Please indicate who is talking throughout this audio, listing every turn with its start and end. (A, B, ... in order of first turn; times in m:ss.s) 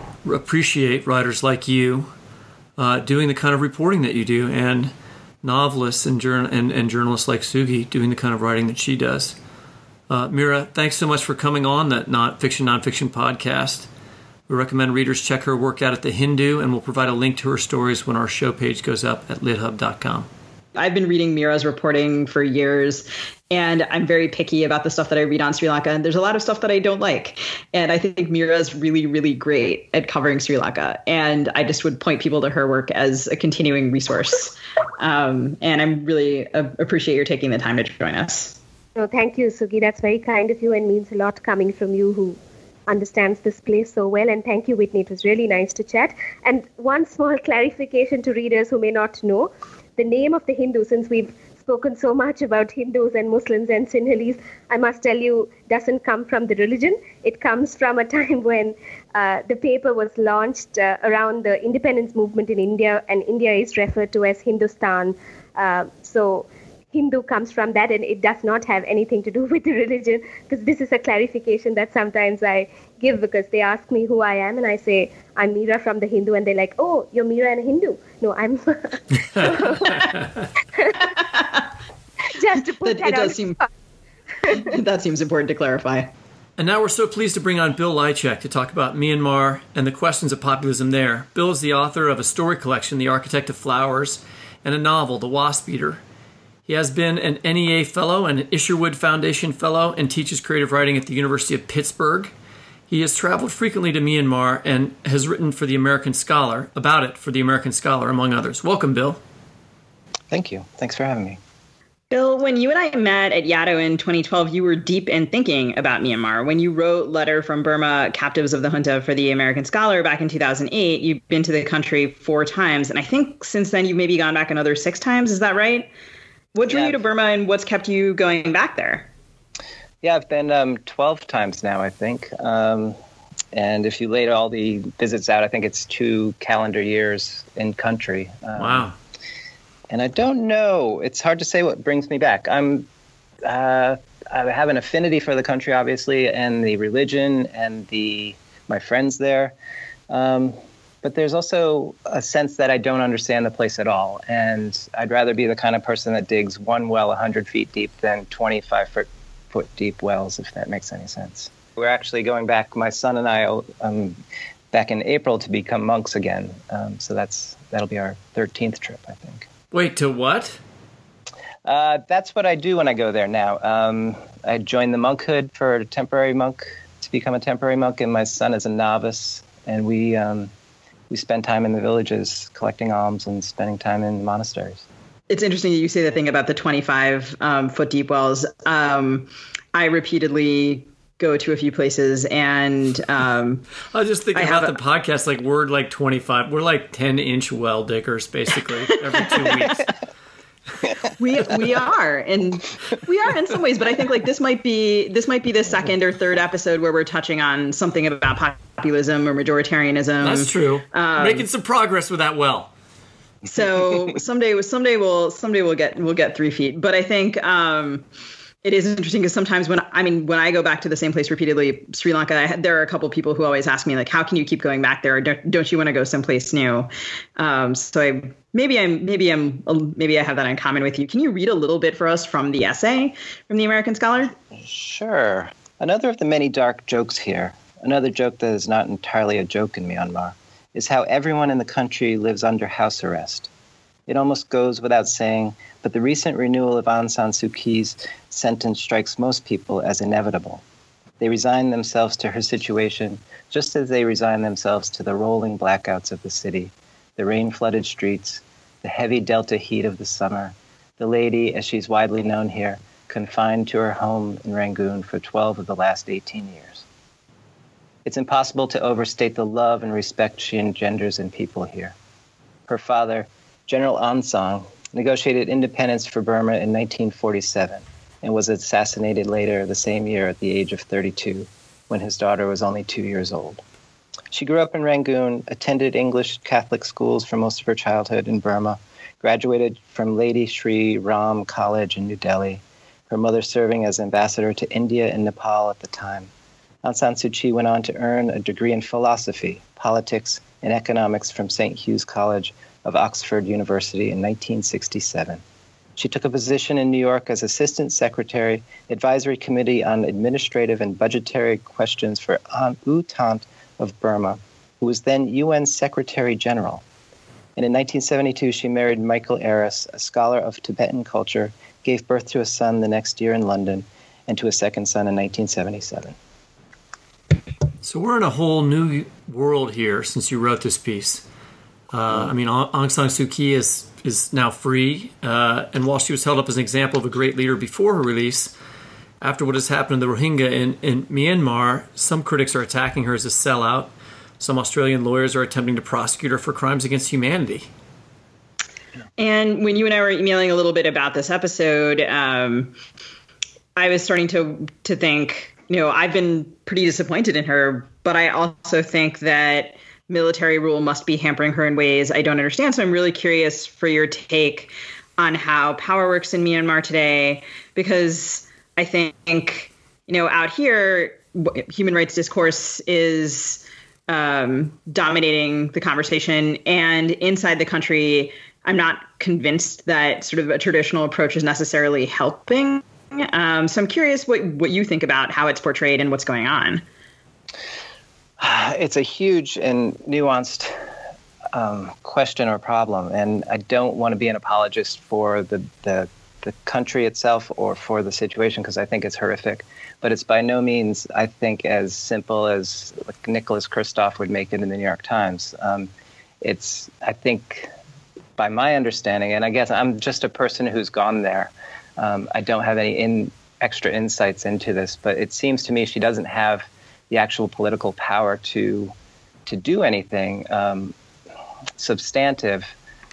0:00.2-0:02.1 A
0:02.8-0:09.4 A
0:10.1-0:13.9 A
0:14.5-0:20.3 A
0:20.8-0:38.6 B
0:39.0-1:20.1 C
1:19.4-1:20.2 A
1:21.2-1:21.7 B
1:22.4-1:23.7 C
1:22.8-1:23.6 B
1:24.5-1:26.1 B
1:26.6-1:36.0 A
1:36.7-1:42.3 A
1:42.9-1:49.2 A
1:50.3-1:51.4 D
1:52.1-2:05.9 B
2:06.5-2:09.1 B
2:06.7-2:07.0 D
2:10.0-2:13.0 D
2:13.5-2:18.9 D
2:18.6-2:18.9 A
2:19.9-2:22.9 D
2:23.4-2:29.5 D
2:30.1-2:44.2 D
2:44.7-2:49.5 D
2:49.7-2:50.6 A
2:51.6-3:00.5 D
3:01.1-3:04.8 D
3:05.3-3:13.7 B
3:13.9-3:19.9 A
3:14.4-3:14.8 B
3:21.2-3:31.4 B
3:30.2-3:32.7 A
3:33.5-3:38.0 B
3:38.6-3:54.3 B
3:54.5-4:03.5 D
4:04.1-4:10.6 D
4:11.2-4:26.8 D
4:28.0-4:31.9 D
4:32.7-4:43.6 D
4:44.3-4:56.3 D
4:56.8-5:05.4 D
5:06.0-5:16.8 D
5:17.6-5:26.2 D
5:27.8-5:31.2 A
5:31.9-5:38.5 A
5:39.2-5:47.7 A
5:49.2-5:52.8 B
5:53.8-6:26.8 B
6:28.4-6:30.7 D
6:31.5-6:45.9 D
6:46.4-6:47.7 D
6:48.4-6:58.9 D
6:59.5-7:00.9 D
7:01.8-7:02.7 D